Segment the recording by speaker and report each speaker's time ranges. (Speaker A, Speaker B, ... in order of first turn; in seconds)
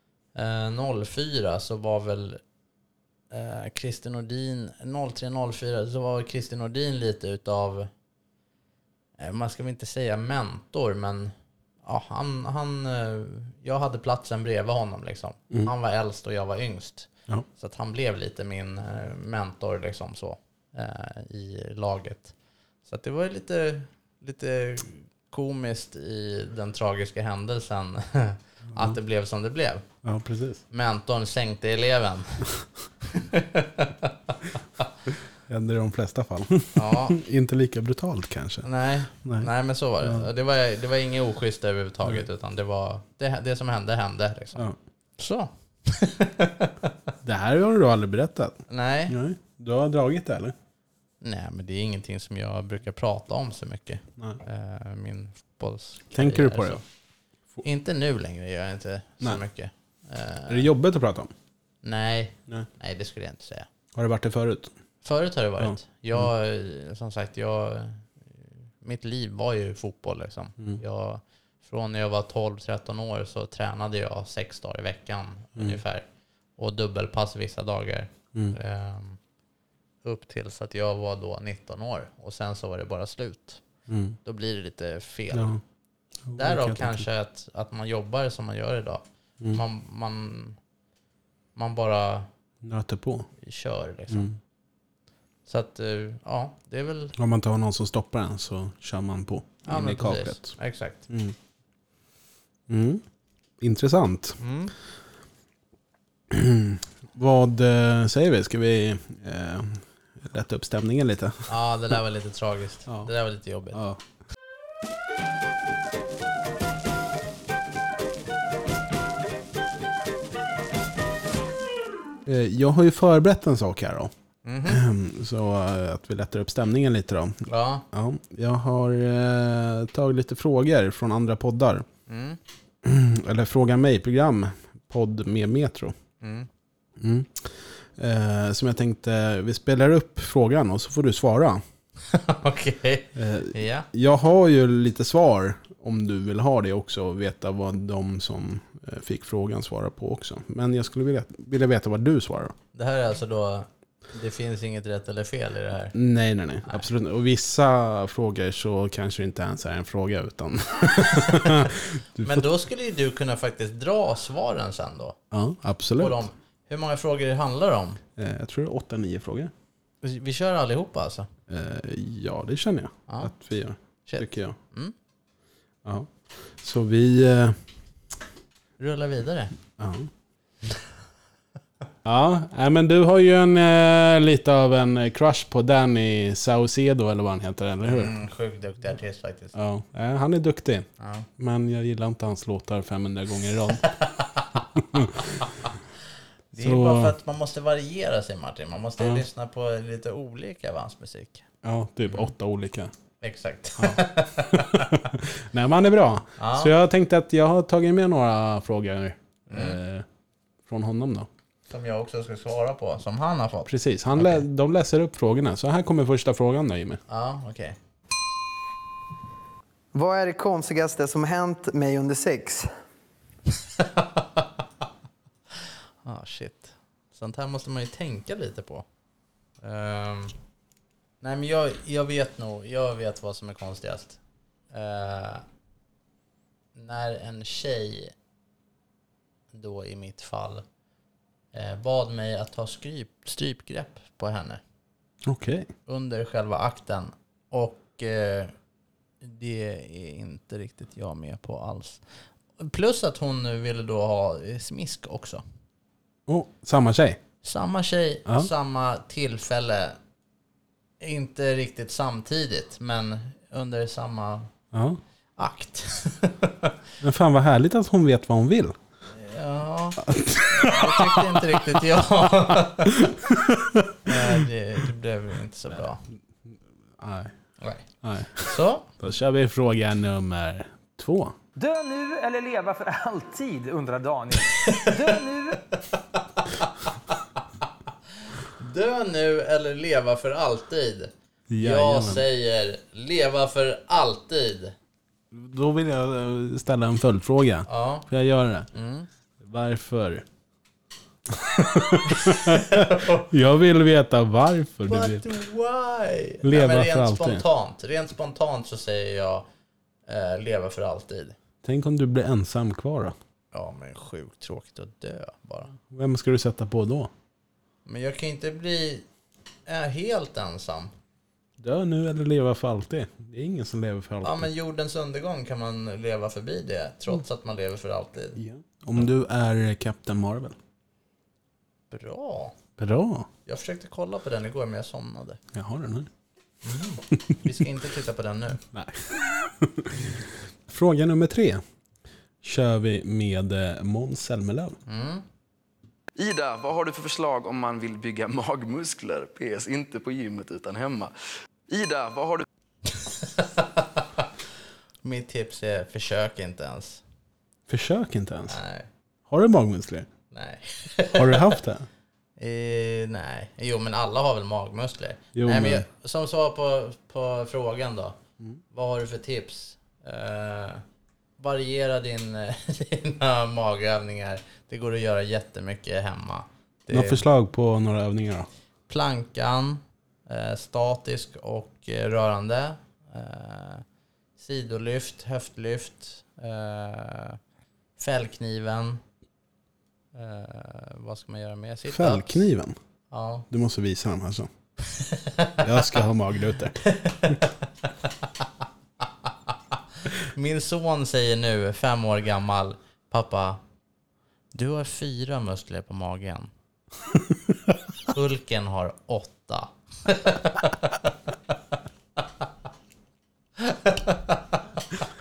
Speaker A: 0.3-2.4, 3.3-7.9, 9.2-22.3, 22.8-29.8, 30.7-32.5, 33.0-34.8, 36.7-37.2, 38.6-44.6, 45.2-46.9, 48.7-49.1, 51.2-56.8, 57.6-60.7, 61.8-63.7, 65.0-76.0, 76.6-79.2, 80.0-83.6, 84.2-85.6, 86.3-90.6, 91.5-92.3, 93.4-94.3, 95.5-97.1, 99.7-101.0, 104.4-104.7, 111.5-113.8, 124.4-124.8, 127.5-127.8, 132.1-132.4, 136.2-136.5, 142.1-143.9, 152.7-155.9, 161.3-161.6, 162.2-165.2, 166.0-168.0, 170.0-171.3, 173.1-173.3, 174.1-174.9, 178.8-179.5, 187.9-189.5, 191.0-191.2, 193.9-194.3, 196.5-201.4, 203.2-205.0, 206.4-206.7, 209.5-209.8, 211.7-214.4, 217.1-217.8, 223.8-224.4, 225.5-228.8, 229.6-230.3, 231.2-234.2, 234.7-235.4, 236.7-238.1, 239.5-240.6, 241.5-244.6, 245.8-248.5, 249.2-252.1, 252.6-255.4, 257.4-260.0, 261.0-264.5, 265.4-266.8, 269.1-273.1, 274.1-276.0, 277.6-278.9, 288.6-294.8, 297.7-298.1, 298.7-299.1, 302.2-303.3, 304.9-309.4, 310.1-311.4, 313.5-315.7, 317.8-319.1, 319.6-320.9, 324.2-328.4, 331.9-332.6, 333.4-335.4, 336.6-338.6, 344.9-345.2, 352.9-354.2, 355.0-357.0, 358.5-358.9, 360.3-361.6, 362.4-368.2, 368.7-370.8, 371.4-377.2, 378.9-383.8, 384.4-387.4, 388.0-389.0, 390.1-392.4, 393.1-393.4, 394.8-395.9, 396.8-397.4, 400.2-403.6, 404.5-406.5, 408.0-411.1, 413.6-415.0
Speaker B: 30.0-30.6, 35.5-38.6, 39.2-39.5, 47.2-50.5, 56.1-56.8, 60.5-61.3, 63.9-64.7, 65.6-66.3, 83.9-84.2, 85.3-85.6, 86.2-87.0, 92.6-93.3, 94.1-94.4, 97.2-101.3, 102.7-103.0, 103.6-104.4, 106.3-111.5, 113.7-114.0, 122.2-124.1, 124.7-131.8, 132.8-135.9, 137.0-141.6, 143.2-152.5, 155.9-162.4, 165.3-166.2, 168.2-169.5, 171.5-174.6, 175.8-177.6, 179.8-180.1, 182.0-188.1, 189.5-190.9, 191.4-193.9, 194.7-195.7, 196.6-197.1, 201.6-202.9, 204.6-210.0, 210.7-211.3, 213.7-217.0, 245.2-245.7, 256.3-257.2, 264.7-265.0, 267.0-268.7, 270.1-271.4, 273.3-274.1, 276.5-277.3, 278.0-281.4, 291.5-292.2, 295.3-298.7, 299.4-300.2, 301.4-305.3, 306.4-307.4, 311.6-313.1, 315.9-317.1, 321.6-324.5, 328.4-330.6, 332.8-333.3, 335.5-336.1, 338.7-341.6, 342.4-344.8, 357.7-358.6, 359.3-360.1, 361.1-361.9, 365.3-365.9, 376.9-378.5, 391.9-392.7, 393.5-394.5, 395.6-397.4
Speaker C: 219.9-222.7
Speaker D: 281.6-285.6
Speaker E: 346.1-351.1, 351.7-352.4